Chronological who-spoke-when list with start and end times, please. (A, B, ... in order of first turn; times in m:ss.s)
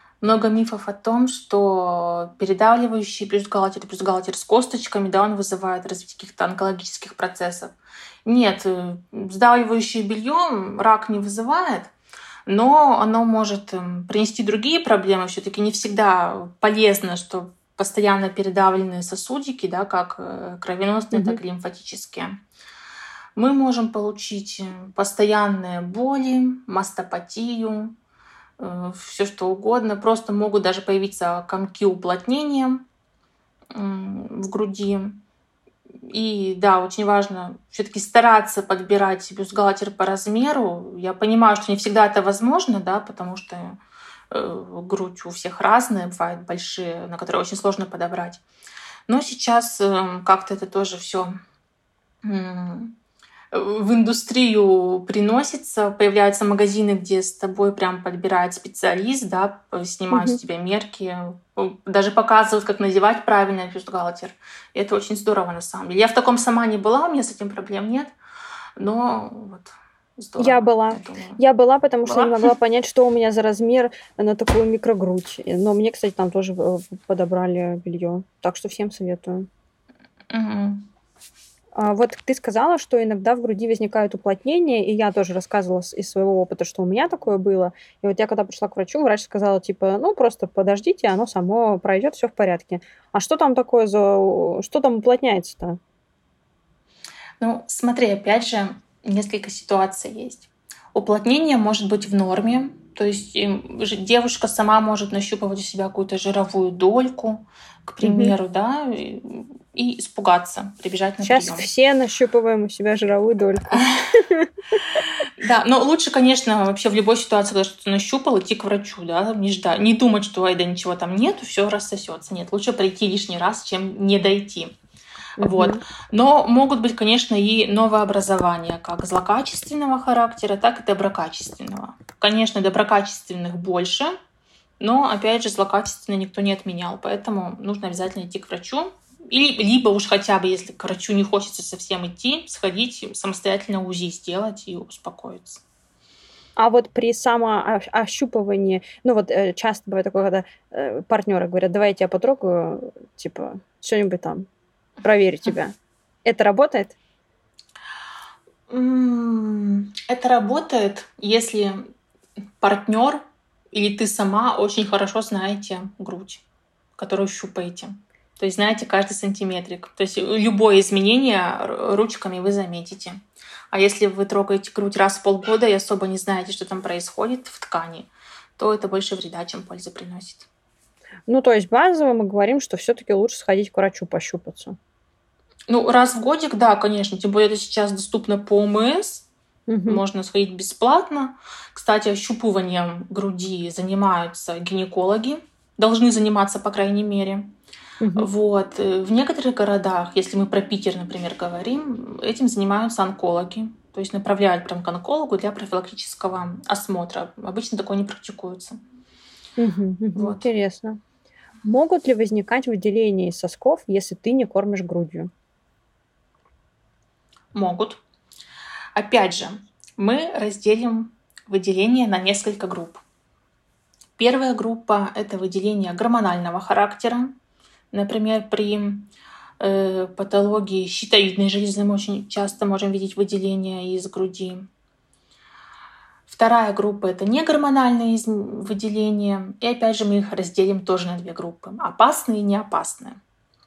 0:00.2-0:11.9 A
0:12.5-0:22.4 A
0:21.1-0:21.4 B
0:23.4-0:28.0 A
0:28.6-0:32.8 A
0:33.7-0:35.2 A
0:36.0-0:43.8 A
0:44.3-0:48.4 A
0:49.1-0:51.4 A
0:52.2-0:53.0 A
0:53.5-1:08.1 A
1:00.1-1:00.4 B
1:08.8-1:11.4 A
1:10.4-1:19.5 B
1:12.0-1:12.5 A
1:20.3-1:20.9 A
1:21.7-1:35.8 B
1:37.4-1:51.7 A
1:48.0-1:48.3 B
1:51.2-1:54.5 B
1:55.4-2:04.7 A
2:05.4-2:05.8 B
2:05.4-2:14.1 A
2:14.8-2:25.6 A
2:26.6-2:34.5 B
2:35.0-2:37.0 B
2:38.7-2:41.9 A
2:42.6-2:46.4 A
2:47.0-2:53.2 A
2:53.7-3:00.5 A
3:01.3-3:04.8 B
3:05.7-3:09.3 A
3:09.7-3:10.0 B
3:09.8-3:17.5 A
3:18.0-3:18.3 B
3:18.2-3:28.8 A
3:29.6-3:31.0 B
3:30.2-3:30.5 A
3:31.6-3:35.3 B
3:37.5-3:38.0 A
3:39.0-3:43.0 A
3:44.2-3:47.4 A
3:47.9-3:54.7 A
3:56.3-4:03.2 A